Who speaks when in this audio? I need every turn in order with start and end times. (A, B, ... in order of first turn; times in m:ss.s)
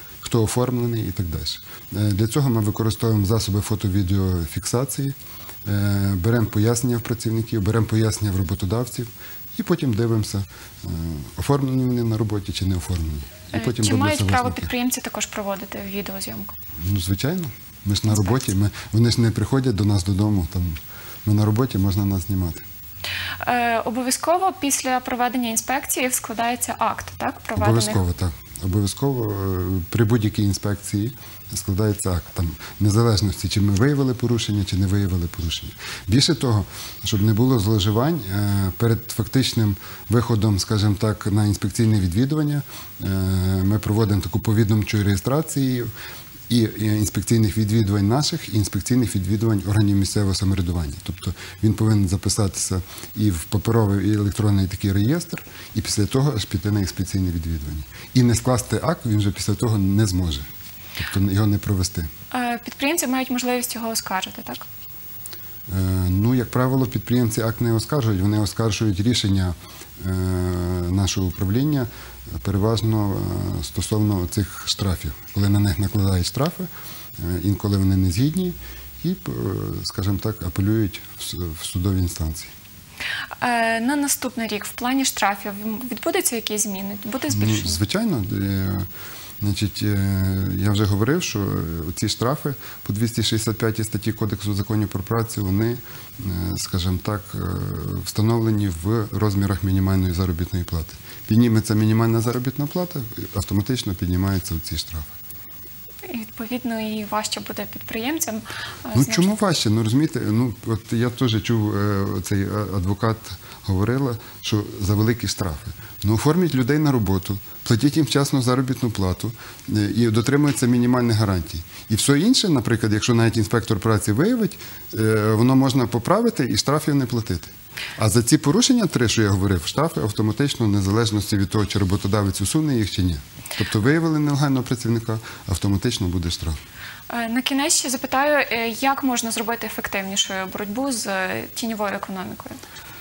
0:00.2-0:14.7 A
0:13.5-0:16.5 B
0:16.8-0:22.6 A
0:18.1-0:18.5 B
0:23.4-0:28.0 B
0:27.6-0:45.9 A
0:46.5-1:00.4 A
1:01.0-1:02.1 A
1:02.3-1:04.6 B
1:05.7-1:22.5 A
1:23.4-1:27.8 B
1:27.3-1:28.9 A
1:29.4-1:45.1 A
1:46.0-1:49.3 B
1:48.9-2:16.6 A
2:17.1-2:22.6 B